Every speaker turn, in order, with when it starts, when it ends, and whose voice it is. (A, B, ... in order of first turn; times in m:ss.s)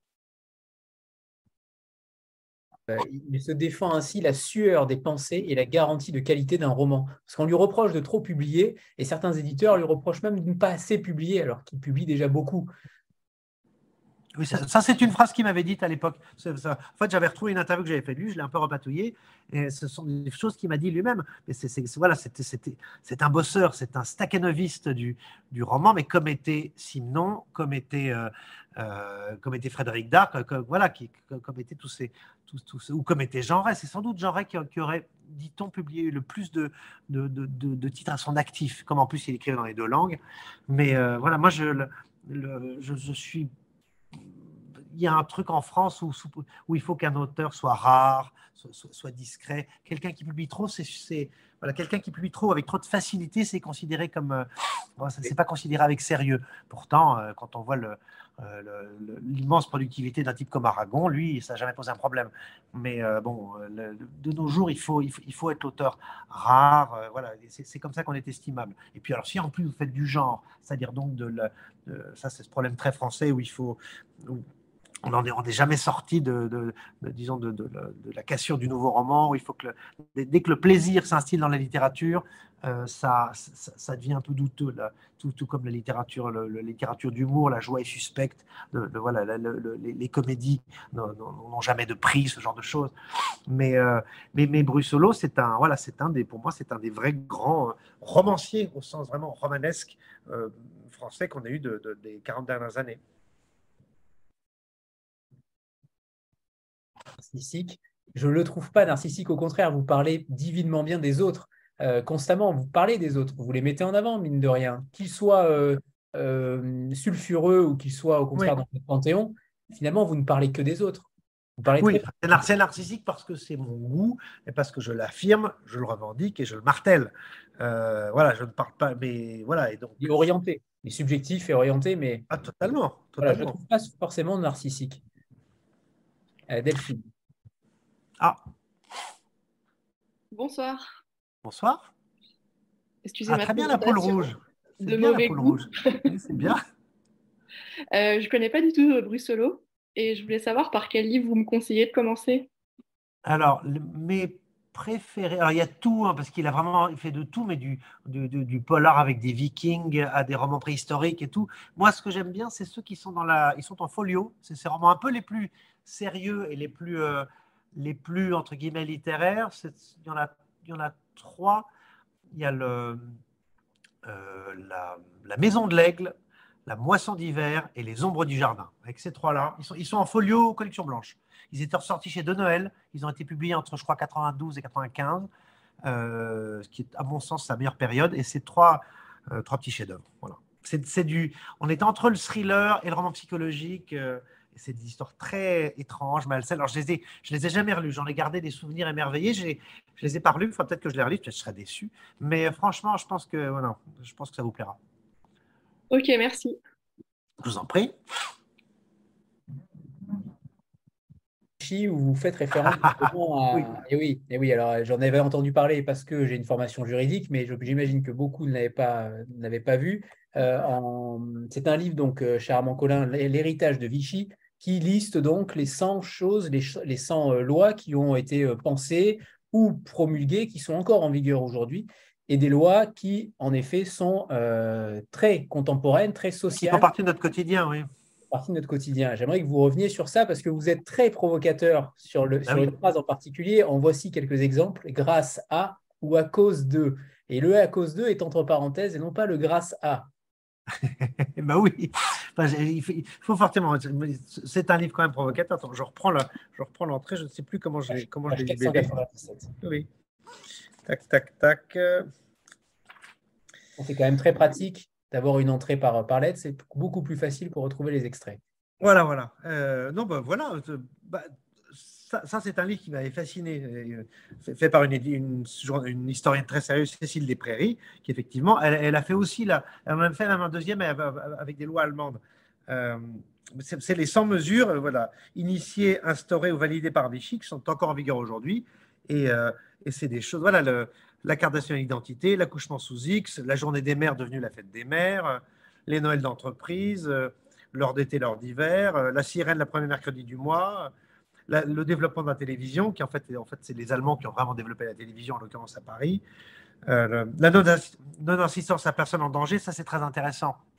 0:02.9-0:12.7 A
0:14.3-0:43.5 B
0:44.9-1:14.4 B
1:15.0-1:32.9 B
1:33.5-1:43.0 B
1:47.2-2:01.1 A
2:01.6-2:02.1 A
2:01.6-2:10.3 B
2:10.0-2:12.2 A
2:12.3-2:13.6 B
2:13.2-2:15.0 A
2:16.5-2:17.1 A
2:20.3-2:20.9 C
2:21.4-2:21.9 B
2:23.0-2:24.3 C
2:23.3-2:26.6 B
2:24.8-2:26.1 C
2:27.9-2:32.5 C
2:33.2-2:51.7 B
2:52.3-2:53.1 B
2:54.0-2:56.1 B
2:56.6-3:05.3 B
3:05.8-3:24.8 B
3:25.9-3:26.6 C
3:27.4-3:28.0 B
3:31.6-3:56.9 A
3:56.6-3:57.9 B
3:58.3-4:10.1 A
4:02.5-4:02.7 B
4:10.7-4:19.0 B
4:17.9-4:19.5 A
4:19.6-4:19.9 B
4:20.8-4:22.1 B
4:23.8-4:28.4 A
4:28.8-5:00.9 B
5:01.5-5:06.2 B
5:06.9-5:10.6 B